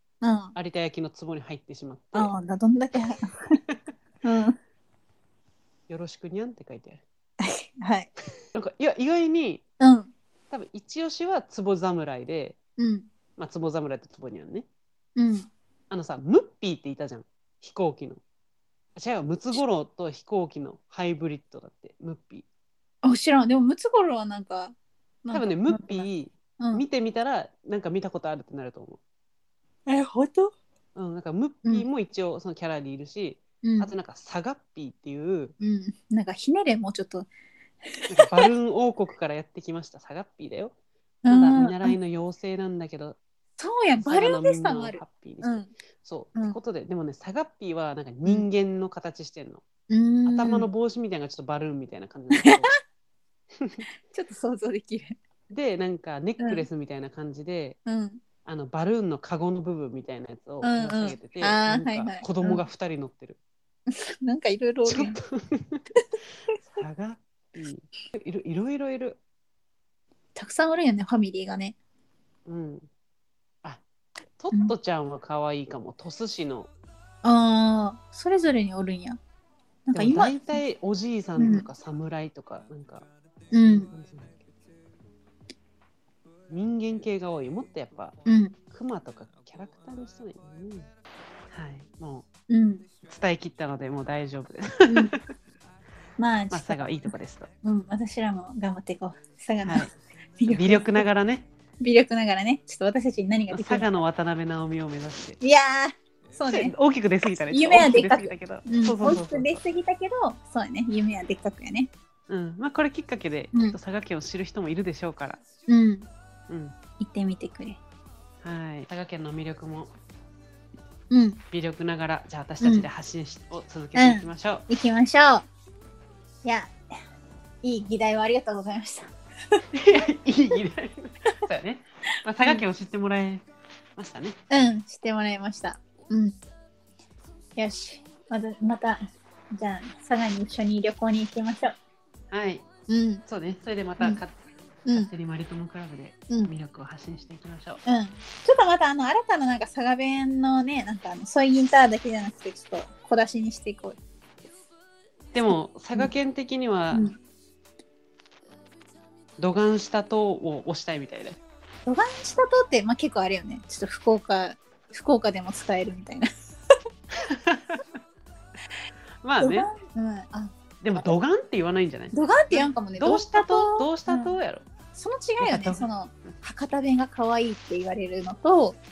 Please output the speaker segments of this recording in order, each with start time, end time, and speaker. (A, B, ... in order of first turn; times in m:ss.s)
0:00.2-0:00.5 A
0:00.6-0:02.3 B
0:02.1-0:03.6 A
0:03.5-0:03.8 B
0:04.2-0:04.6 A
0:05.9-0:07.0 B
0:07.4-0:08.1 A
0:08.6-0:09.6 B
0:09.8-0:10.1 A
0:10.5-0:12.6 B
0:12.8-0:13.1 A
0:13.4-0:14.7 B
0:15.2-0:15.5 A
0:15.9-0:18.2 B
0:19.0-0:22.4 B
0:23.0-0:24.7 A
0:25.2-0:26.1 A
0:25.3-0:29.0 B
0:26.6-0:26.8 A
0:29.9-0:30.5 A
0:31.0-0:35.6 B
0:33.6-0:33.9 A
0:35.6-0:37.3 A
0:37.9-0:38.5 A
0:38.1-0:40.7 B
0:41.2-0:42.0 A
0:41.3-0:43.2 B
0:43.6-0:45.7 A
0:44.0-0:49.6 B
0:49.9-0:50.7 A
0:50.3-0:52.7 B
0:52.3-0:52.6 A
0:54.1-0:55.2 A
0:55.5-0:57.8 B
0:56.4-0:56.7 A
0:57.9-0:58.2 A
0:58.4-1:03.4 B
1:00.6-1:02.6 A
1:03.9-1:05.2 A
1:04.9-1:05.8 B
1:06.7-1:09.2 B
1:10.4-1:11.8 A
1:12.4-1:12.9 B
1:14.4-1:16.7 B
1:17.2-1:19.2 A
1:19.9-1:20.6 A
1:20.0-1:23.1 B
1:21.4-1:21.7 A
1:23.5-1:23.9 A
1:23.7-1:24.4 B
1:26.5-1:28.2 B
1:28.3-1:28.6 A
1:28.7-1:30.9 B
1:31.5-1:32.3 B
1:32.5-1:32.9 A
1:33.0-1:35.2 B
1:34.9-1:35.2 A
1:36.2-1:36.8 A
1:36.5-1:37.5 B
1:37.6-1:41.0 A
1:39.6-1:39.9 B
1:40.5-1:41.5 B
1:41.8-1:43.9 A
1:43.5-1:45.4 B
1:45.4-1:46.7 A
1:46.5-1:49.6 B
1:47.5-1:51.9 A
1:52.3-1:55.4 B
1:53.5-1:53.8 A
1:55.7-1:56.1 A
1:56.5-1:56.8 B
1:57.0-1:57.8 A
1:58.4-1:59.9 B
2:01.1-2:01.4 A
2:01.5-2:04.6 B
2:02.6-2:02.9 A
2:04.0-2:05.5 A
2:06.4-2:06.7 A
2:07.6-2:09.6 A
2:09.7-2:13.4 B
2:14.0-2:14.4 B
2:14.5-2:16.3 A
2:17.6-2:21.7 A
2:22.3-2:22.6 B
2:22.9-2:23.2 A
2:23.3-2:24.4 B
2:24.9-2:27.8 B
2:27.8-2:34.0 A
2:35.3-2:37.1 B
2:36.9-2:37.2 A
2:39.4-2:41.4 B
2:41.9-2:46.3 A
2:47.3-2:47.8 B
2:49.2-2:49.7 B
2:49.4-2:51.1 A
2:50.8-2:54.7 B
2:52.1-2:54.4 A
2:54.9-2:58.8 A
2:55.4-2:55.9 B